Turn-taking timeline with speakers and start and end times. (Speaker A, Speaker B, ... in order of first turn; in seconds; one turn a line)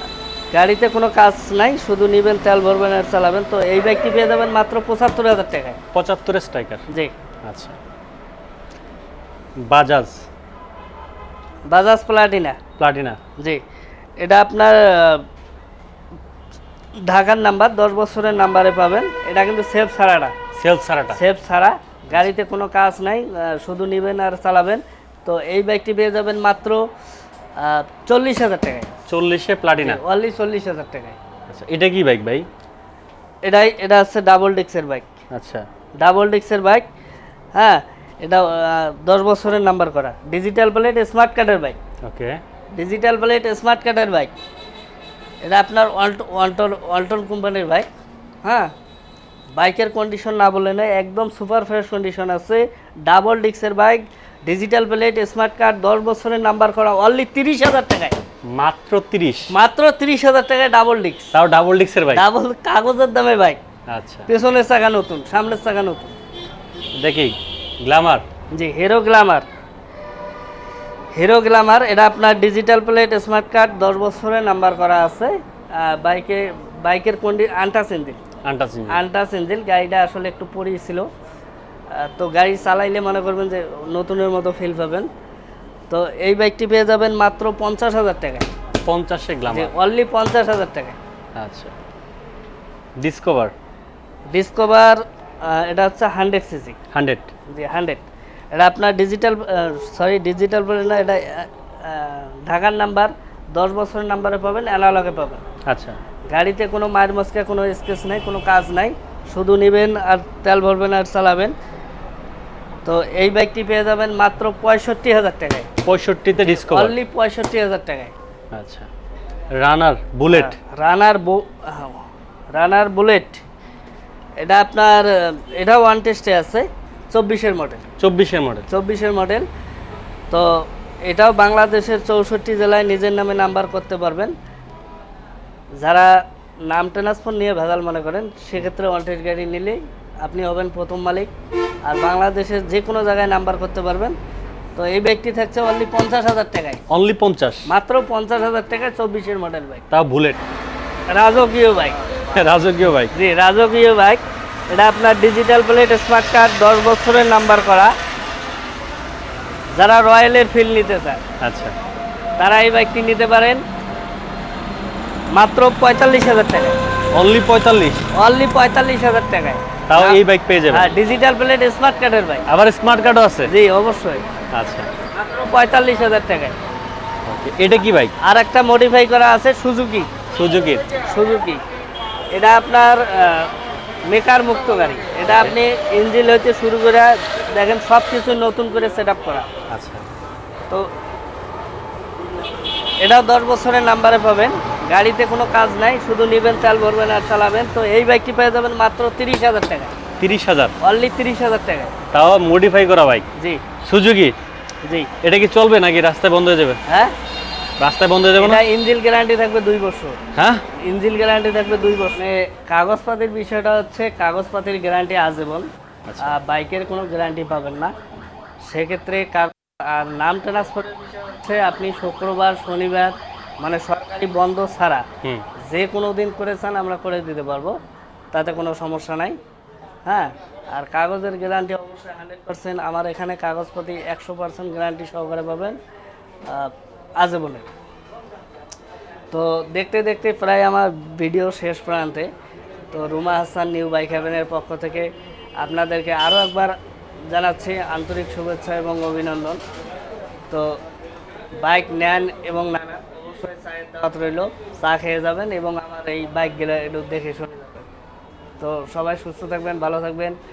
Speaker A: 0.5-5.8
Speaker B: 5.9-6.9
Speaker B: 7.4-7.8
Speaker B: 9.6-10.2
Speaker A: 11.7-12.6
Speaker B: 12.8-13.2
Speaker A: 14.2-15.2
Speaker A: 17.0-20.3
Speaker B: 20.5-21.2
Speaker A: 21.1-26.8
Speaker A: 27.6-28.9
Speaker B: 29.1-30.0
Speaker A: 29.8-31.2
Speaker B: 31.5-32.5
Speaker A: 33.4-35.0
Speaker B: 35.3-35.6
Speaker A: 36.0-36.9
Speaker A: 37.5-41.8
Speaker B: 42.0-42.4
Speaker A: 42.8-44.3
Speaker A: 45.4-47.9
Speaker A: 48.4-48.7
Speaker A: 49.5-58.1
Speaker B: 58.5-59.5
Speaker A: 59.5-61.3
Speaker B: 61.3-62.2
Speaker A: 62.1-63.6
Speaker B: 63.9-64.3
Speaker A: 64.3-66.1
Speaker B: 67.0-68.2
Speaker A: 68.5-69.5
Speaker A: 71.1-78.2
Speaker B: 78.4-79.0
Speaker A: 78.9-81.0
Speaker A: 81.9-85.1
Speaker A: 85.9-88.5
Speaker B: 88.8-89.7
Speaker A: 89.5-91.0
Speaker B: 91.4-91.7
Speaker B: 93.0-93.5
Speaker A: 94.3-96.8
Speaker B: 96.9-97.3
Speaker A: 97.5-105.4
Speaker B: 105.7-106.0
Speaker A: 106.3-111.5
Speaker A: 112.8-115.7
Speaker B: 115.8-116.9
Speaker A: 116.4-118.1
Speaker B: 118.5-118.9
Speaker B: 119.6-120.5
Speaker A: 120.3-122.0
Speaker A: 122.5-123.4
Speaker A: 124.4-127.8
Speaker B: 128.0-128.7
Speaker A: 128.7-129.4
Speaker A: 130.3-134.3
Speaker A: 135.8-141.3
Speaker A: 141.8-144.2
Speaker A: 144.8-146.8
Speaker B: 146.9-147.6
Speaker A: 147.7-149.8
Speaker B: 149.9-150.4
Speaker A: 151.1-152.1
Speaker B: 152.3-153.1
Speaker A: 153.1-157.9
Speaker A: 159.7-161.2
Speaker B: 161.4-161.8
Speaker A: 162.4-163.6
Speaker A: 165.3-166.8
Speaker B: 167.1-168.1
Speaker A: 168.1-172.4
Speaker B: 169.9-170.9
Speaker B: 172.5-173.5
Speaker A: 173.5-174.2
Speaker B: 174.5-174.9
Speaker A: 175.1-176.6
Speaker B: 177.2-178.1
Speaker A: 178.2-180.1
Speaker B: 180.3-180.9
Speaker A: 181.0-181.6
Speaker A: 182.3-183.5
Speaker A: 184.1-189.5
Speaker B: 185.2-185.5
Speaker B: 189.7-190.1
Speaker A: 193.0-199.9
Speaker B: 200.2-200.7
Speaker A: 200.8-201.9
Speaker B: 202.1-203.2
Speaker A: 203.4-203.6
Speaker B: 203.8-204.3
Speaker B: 205.2-206.8
Speaker A: 206.9-207.1
Speaker B: 207.8-208.6
Speaker A: 208.4-210.2
Speaker B: 210.3-210.6
Speaker A: 210.8-215.7
Speaker B: 216.1-216.4
Speaker A: 216.2-217.9
Speaker A: 218.7-225.1
Speaker A: 225.6-227.8
Speaker A: 228.3-229.4
Speaker A: 230.1-235.8
Speaker A: 236.4-237.7
Speaker A: 239.3-242.3
Speaker A: 242.9-245.1
Speaker A: 245.6-246.7
Speaker A: 247.3-249.6
Speaker A: 250.5-250.8
Speaker A: 251.6-257.9
Speaker A: 258.6-260.4